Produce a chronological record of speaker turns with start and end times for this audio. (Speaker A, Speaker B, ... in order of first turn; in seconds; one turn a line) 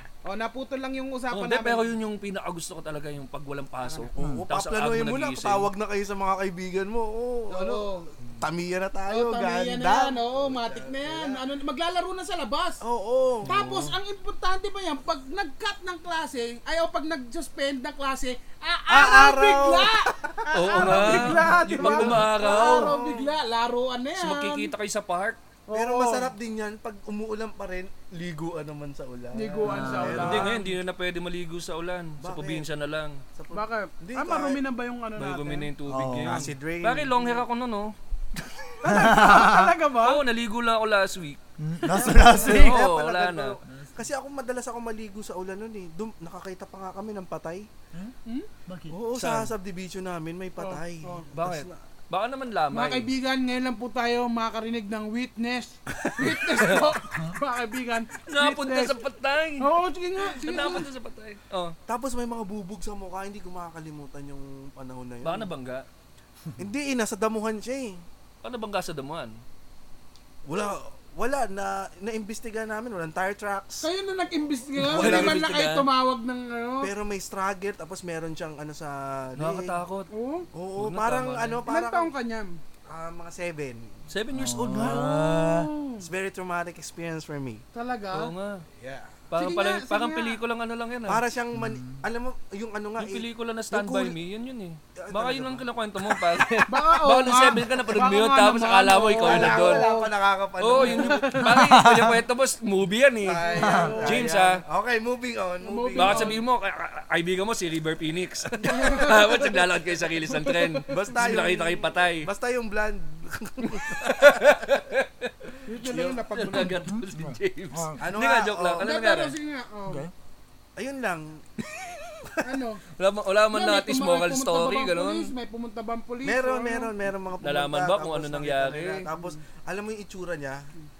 Speaker A: 0.2-1.9
Speaker B: 1.3-5.7
Speaker C: 3.9-11.4
Speaker D: 4.2-4.5
Speaker A: 7.5-8.1
Speaker A: 9.1-12.8
Speaker C: 12.8-13.6
Speaker A: 13.5-24.7
Speaker C: 18.9-23.3
Speaker B: 20.5-23.0
Speaker B: 24.2-25.4
Speaker A: 25.7-26.3
Speaker C: 25.7-30.6
Speaker A: 29.3-30.7
Speaker D: 29.6-30.5
Speaker B: 30.1-33.2
Speaker C: 32.2-32.6
Speaker C: 33.4-34.6
Speaker A: 33.5-35.7
Speaker B: 35.2-38.8
Speaker D: 35.9-36.5
Speaker C: 36.2-37.2
Speaker A: 38.8-40.2
Speaker D: 38.9-39.7
Speaker B: 40.0-41.4
Speaker D: 41.6-42.9
Speaker C: 41.9-47.7
Speaker B: 42.0-43.6
Speaker D: 43.7-44.0
Speaker D: 48.7-49.0
Speaker C: 48.9-51.7
Speaker B: 49.1-49.5
Speaker A: 50.6-51.3
Speaker B: 51.3-53.1
Speaker A: 52.7-59.0
Speaker B: 56.0-56.9
Speaker B: 58.3-61.8
Speaker A: 59.6-60.9
Speaker C: 61.9-65.5
Speaker B: 65.2-65.8
Speaker C: 66.6-68.0
Speaker B: 68.4-69.3
Speaker C: 70.5-73.9
Speaker A: 73.8-76.9
Speaker B: 74.8-75.9
Speaker C: 74.8-75.4
Speaker C: 76.8-79.7
Speaker B: 79.4-80.1
Speaker A: 80.1-80.5
Speaker C: 80.5-82.1
Speaker B: 80.8-81.6
Speaker A: 81.7-82.5
Speaker C: 82.9-85.4
Speaker B: 84.1-85.6
Speaker D: 84.3-85.7
Speaker A: 85.3-86.1
Speaker C: 86.0-87.6
Speaker A: 87.7-88.3
Speaker B: 88.1-88.6
Speaker C: 88.8-89.2
Speaker B: 89.3-91.2
Speaker A: 89.3-90.4
Speaker C: 91.1-94.2
Speaker D: 91.5-92.0
Speaker B: 93.0-99.9
Speaker C: 95.0-96.5
Speaker A: 96.7-100.1
Speaker C: 97.7-98.1
Speaker C: 99.2-101.4
Speaker B: 100.6-104.6
Speaker A: 100.7-101.6
Speaker D: 101.5-102.2
Speaker C: 103.2-106.4
Speaker A: 103.4-104.3
Speaker D: 103.6-104.0
Speaker A: 105.6-106.4
Speaker B: 106.0-112.3
Speaker A: 108.6-109.6
Speaker A: 110.3-111.1
Speaker C: 110.9-114.6
Speaker B: 113.7-119.4
Speaker A: 115.7-116.8
Speaker C: 115.8-116.1
Speaker D: 116.6-118.0
Speaker C: 118.0-118.9
Speaker A: 118.8-120.1
Speaker C: 120.8-121.5
Speaker A: 122.4-122.8
Speaker B: 123.0-125.3
Speaker A: 123.5-126.9
Speaker C: 126.2-130.7
Speaker B: 127.4-129.1
Speaker A: 129.1-129.4